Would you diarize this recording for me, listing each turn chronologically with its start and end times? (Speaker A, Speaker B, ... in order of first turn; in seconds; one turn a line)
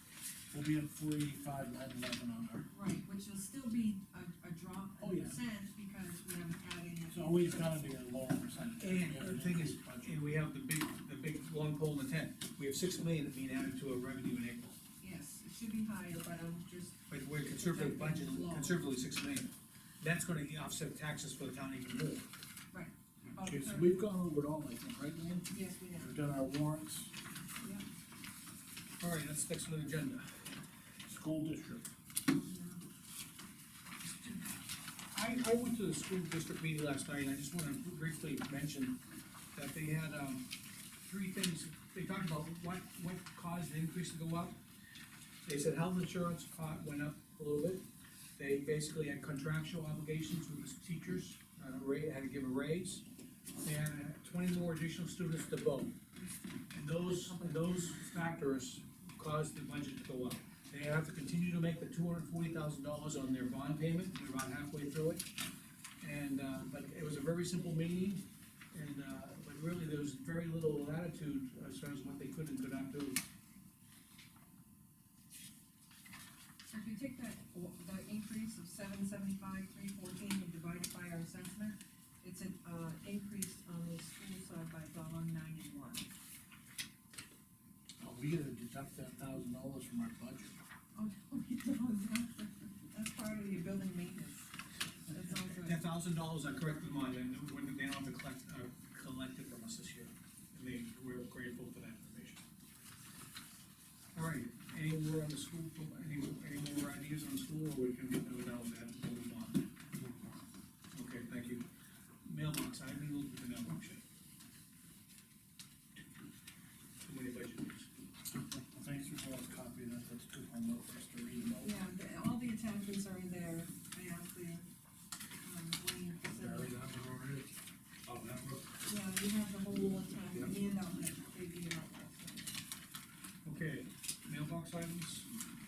Speaker A: 0.5-2.7
Speaker B: 2.7-7.9
Speaker A: 5.0-5.4
Speaker A: 7.1-10.2
Speaker C: 8.8-14.8
Speaker B: 15.0-18.8
Speaker C: 17.1-22.3
Speaker B: 22.7-24.0
Speaker A: 23.4-27.1
Speaker B: 25.5-26.2
Speaker C: 29.0-30.5
Speaker A: 31.1-31.9
Speaker B: 32.3-32.8
Speaker C: 35.1-39.0
Speaker C: 39.5-40.5
Speaker C: 41.0-44.6
Speaker C: 45.5-47.8
Speaker C: 48.4-53.0
Speaker C: 53.6-56.0
Speaker C: 56.7-65.3
Speaker B: 57.0-58.3
Speaker C: 66.0-73.2
Speaker B: 76.7-86.1
Speaker A: 88.0-90.6
Speaker B: 91.0-94.5
Speaker B: 95.1-95.8
Speaker C: 95.6-102.5
Speaker C: 104.2-109.7
Speaker D: 109.9-110.5
Speaker C: 110.9-111.7
Speaker C: 112.2-114.0
Speaker C: 117.0-117.9
Speaker A: 118.3-121.8
Speaker B: 121.6-124.7
Speaker B: 125.4-126.8
Speaker D: 126.3-127.5
Speaker D: 128.1-128.8
Speaker B: 128.8-132.6
Speaker C: 133.4-135.3